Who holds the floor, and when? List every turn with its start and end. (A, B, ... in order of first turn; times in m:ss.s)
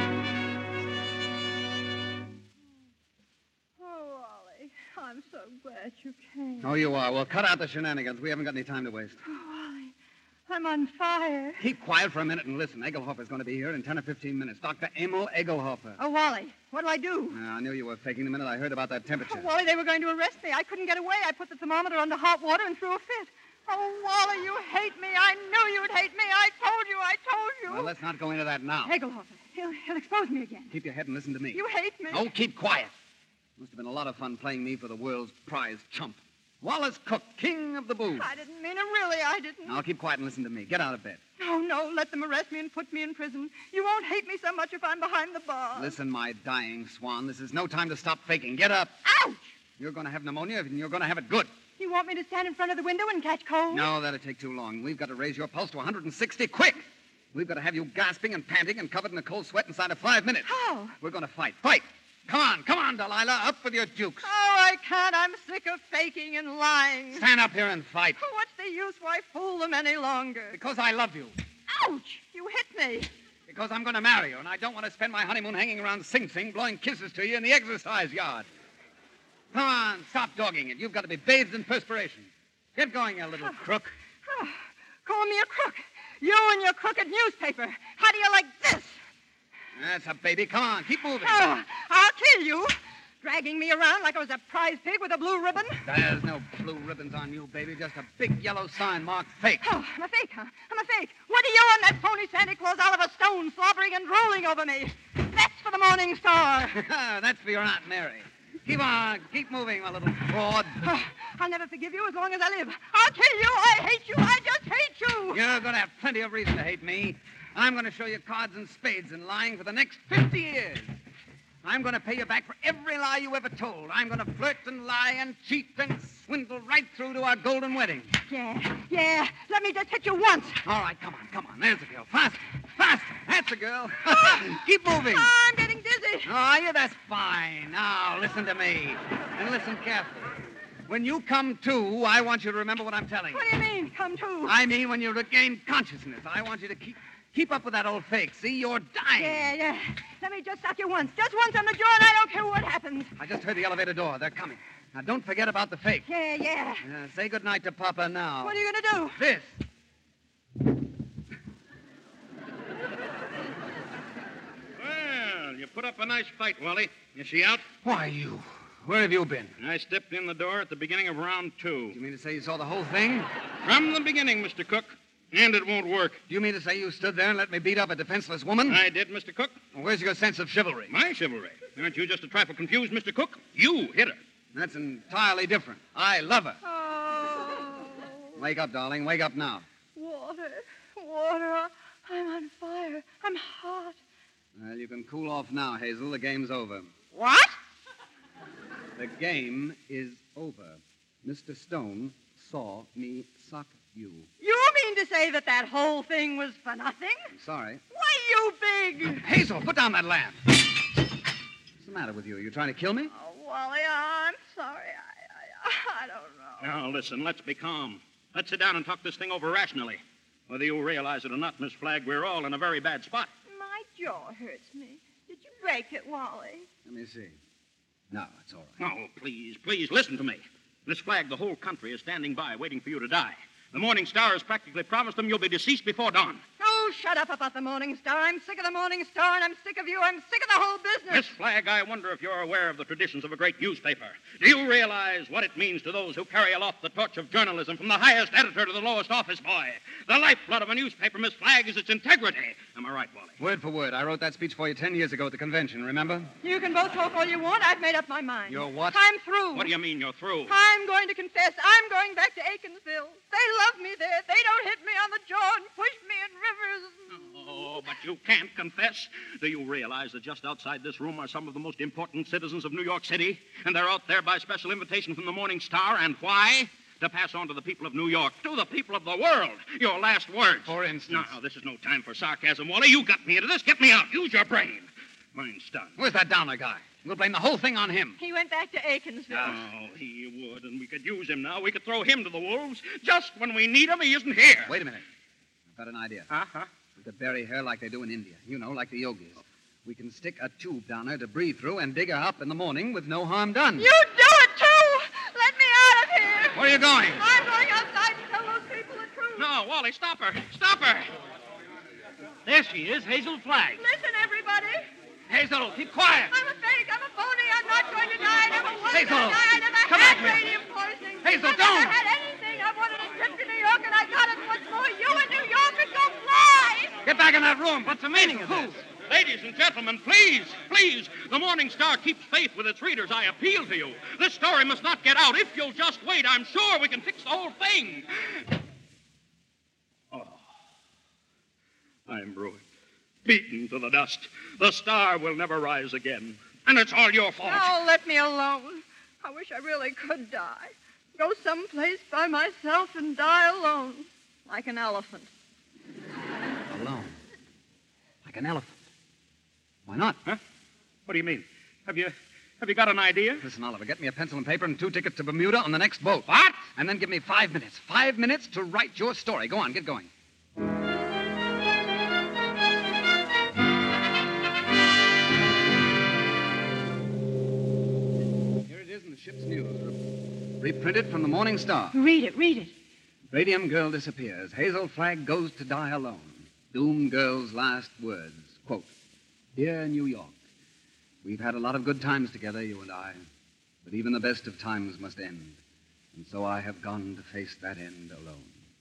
0:03.8-0:06.7 A
0:06.6-0:09.2 B
0:09.2-0:09.9 A
0:10.5-0:11.6 A
0:11.6-0:16.0 B
0:16.0-0:17.4 A
0:17.3-0:19.5 B
0:19.2-0:27.9 A
0:27.7-0:28.9 B
0:28.8-0:30.7 A
0:30.7-0:32.9 B
0:31.5-0:32.3 A
0:33.6-0:38.3 B
0:38.1-0:39.8 A
0:39.6-0:41.2 B
0:41.4-0:46.0 A
0:45.7-0:49.0 B
0:49.0-0:49.5 A
0:49.8-0:51.5 B
0:51.8-0:53.9 A
0:53.7-1:00.5 B
1:00.4-1:01.0 A
1:01.0-1:04.3 B
1:04.2-1:07.3 A
1:07.1-1:08.2 B
1:08.2-1:10.6 A
1:10.5-1:11.4 B
1:11.7-1:13.1 A
1:13.5-1:18.5 B
1:19.5-1:23.9 B
1:24.2-1:29.0 A
1:29.7-1:31.4 B
1:31.2-1:35.8 A
1:35.8-1:39.6 B
1:39.6-1:46.8 A
1:46.7-1:50.8 B
1:50.8-1:55.4 A
1:55.3-2:00.9 B
2:01.6-2:08.1 B
2:08.3-2:10.6 A
2:10.6-2:15.3 B
2:14.1-2:16.3 A
2:16.2-2:20.3 B
2:20.9-2:23.4 B
2:23.3-2:24.6 A
2:24.4-2:29.4 B
2:29.1-2:33.1 A
2:33.2-2:36.1 B
2:36.0-2:36.8 A
2:36.8-2:38.6 B
2:38.4-2:39.2 A
2:39.2-2:39.6 B
2:44.8-2:47.6 C
2:47.8-2:49.5 B
2:49.6-2:52.0 C
2:51.9-2:53.3 B
2:53.6-2:56.2 C
2:56.3-2:58.8 B
2:58.7-2:59.6 C
2:59.7-3:00.9 B
3:00.9-3:04.2 C
3:04.5-3:06.6 B
3:06.6-3:08.4 A
3:08.4-3:09.6 B
3:09.9-3:14.0 A
3:14.6-3:16.9 B
3:17.1-3:17.6 A
3:19.0-3:24.3 B
3:24.4-3:27.3 A
3:27.3-3:27.8 B
3:27.9-3:29.3 A
3:29.2-3:30.4 B
3:31.8-3:33.1 B
3:33.1-3:36.7 A
3:36.6-3:43.3 C
3:43.5-3:46.7 A
3:46.8-3:47.4 B
3:48.1-3:48.7 B
3:48.8-3:56.4 C
3:56.6-4:01.3 A
4:01.1-4:13.3 C
4:13.4-4:16.3 B
4:16.4-4:19.7 A
4:18.5-4:19.0 B
4:19.5-4:20.5 C
4:20.5-4:27.8 A
4:27.1-4:45.9 C
4:40.6-4:41.3 B
4:46.0-4:48.2 B
4:48.2-4:49.6 A
4:49.4-4:54.7 C
4:54.6-4:55.0 B
4:55.7-4:56.3 B
4:56.3-4:56.7 C
4:57.0-5:03.9 B
5:03.8-5:09.5 A
5:06.5-5:07.2 B
5:09.4-5:11.1 C
5:13.8-5:14.8 A
5:15.3-5:16.3 B
5:16.3-5:27.0 A
5:18.9-5:20.4 B
5:21.2-5:22.0 B
5:27.0-5:28.8 B
5:29.0-5:38.1 C
5:40.1-5:40.4 C
5:42.1-5:42.6 C
5:43.2-5:47.8 C
5:47.4-5:55.3 A
5:56.7-5:57.1 B
5:58.2-5:58.7 B
5:59.9-6:00.2 B
6:01.1-6:03.4 C
6:03.4-6:10.1 B
6:06.3-6:06.6 C
6:18.6-6:20.0 B
6:20.6-6:22.0 B
6:21.9-6:22.7 A
6:23.3-6:28.9 B
6:29.6-6:30.4 B
6:31.2-6:33.2 B
6:33.8-6:35.6 B
6:36.1-6:38.5 B